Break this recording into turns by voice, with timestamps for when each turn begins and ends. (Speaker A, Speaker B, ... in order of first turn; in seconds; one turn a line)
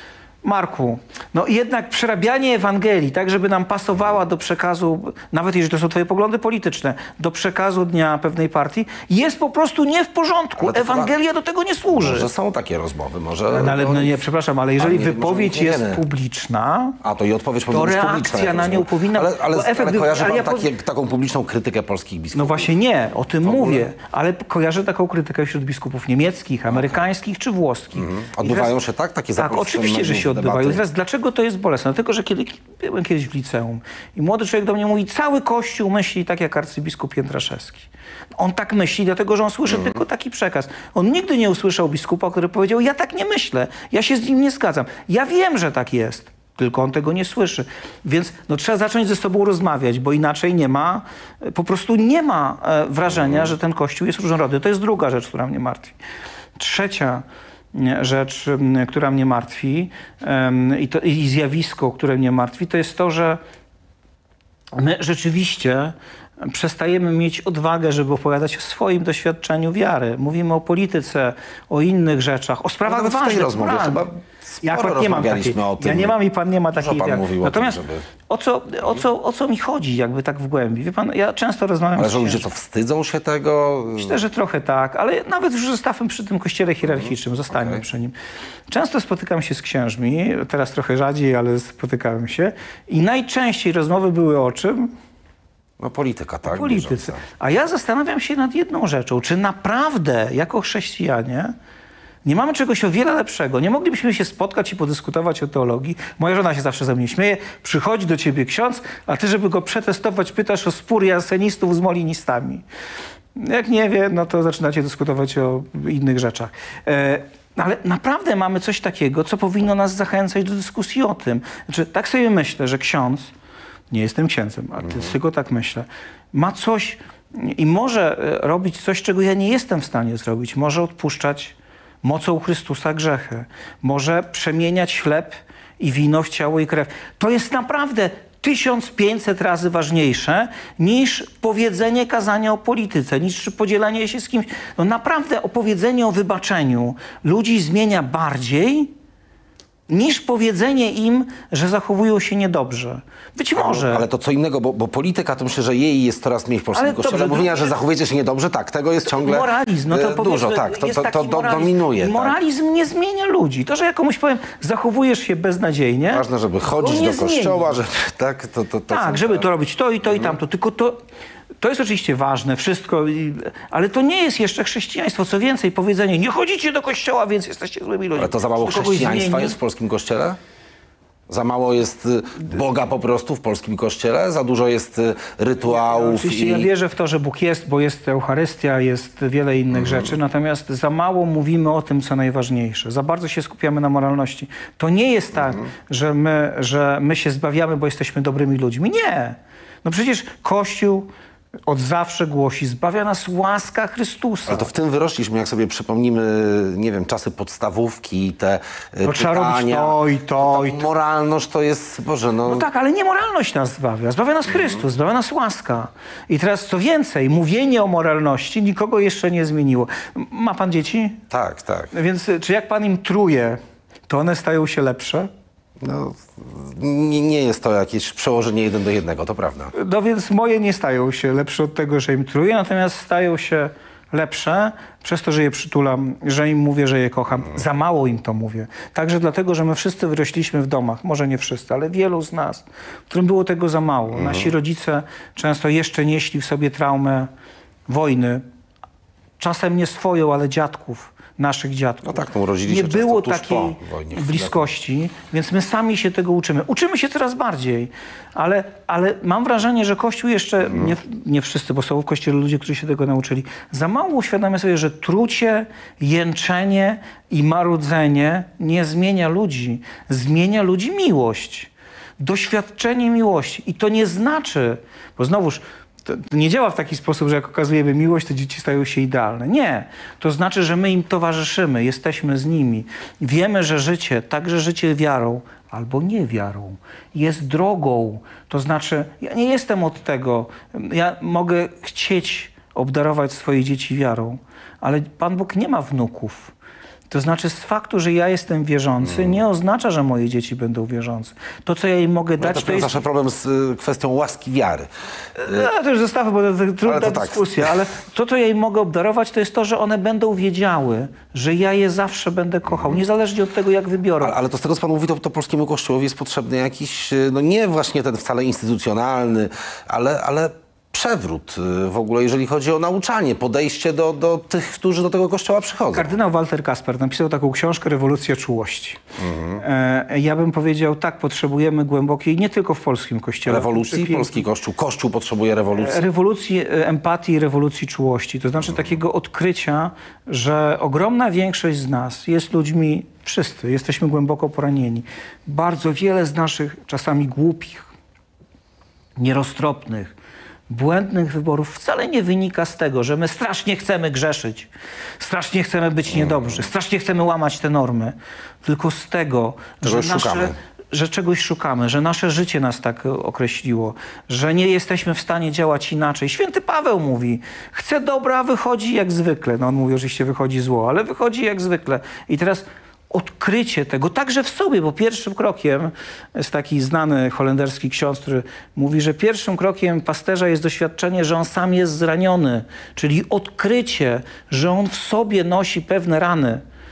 Speaker A: 0.4-12.3
Speaker B: 10.6-11.1
Speaker B: 11.9-14.2
Speaker A: 13.5-17.0
Speaker B: 14.8-16.0
Speaker B: 17.0-22.8
Speaker A: 17.7-20.7
Speaker A: 22.3-28.8
Speaker B: 23.4-23.9
Speaker B: 26.7-27.0
Speaker B: 27.9-30.8
Speaker A: 29.4-56.0
Speaker B: 53.1-53.5
Speaker A: 56.6-63.4
Speaker A: 64.7-82.4
Speaker B: 72.8-76.2
Speaker B: 76.8-78.1
Speaker B: 82.0-84.2
Speaker A: 83.9-88.1
Speaker B: 86.8-87.8
Speaker A: 88.7-94.9
Speaker B: 95.8-97.2
Speaker A: 96.5-101.5
Speaker A: 102.2-112.6
Speaker A: 113.3-123.3
Speaker A: 123.9-148.9
Speaker A: 149.9-154.1
Speaker B: 153.6-162.4
Speaker A: 156.7-157.8
Speaker A: 159.1-167.8
Speaker B: 166.1-169.4
Speaker A: 168.9-171.0
Speaker A: 171.6-179.6
Speaker B: 178.2-180.4
Speaker B: 181.3-186.7
Speaker A: 185.7-201.1
Speaker B: 189.7-190.1
Speaker A: 201.7-204.7
Speaker B: 204.5-212.7
Speaker A: 209.0-210.8
Speaker A: 212.4-221.2
Speaker B: 221.3-221.9
Speaker A: 221.9-225.3
Speaker B: 225.8-229.7
Speaker A: 229.7-247.3
Speaker B: 244.1-244.5
Speaker A: 247.9-248.4
Speaker A: 249.4-296.5
Speaker B: 252.0-254.7
Speaker A: 297.1-303.0
Speaker B: 299.0-299.4
Speaker B: 302.4-304.9
Speaker A: 305.4-314.4
Speaker B: 306.8-307.7
Speaker B: 312.7-313.0
Speaker B: 314.2-326.1
Speaker A: 325.9-329.0
Speaker B: 329.2-329.6
Speaker A: 329.6-334.4
Speaker B: 333.5-336.0
Speaker A: 335.8-347.9
Speaker A: 349.2-350.1
Speaker A: 350.7-386.6
Speaker B: 356.1-356.5
Speaker B: 359.8-360.5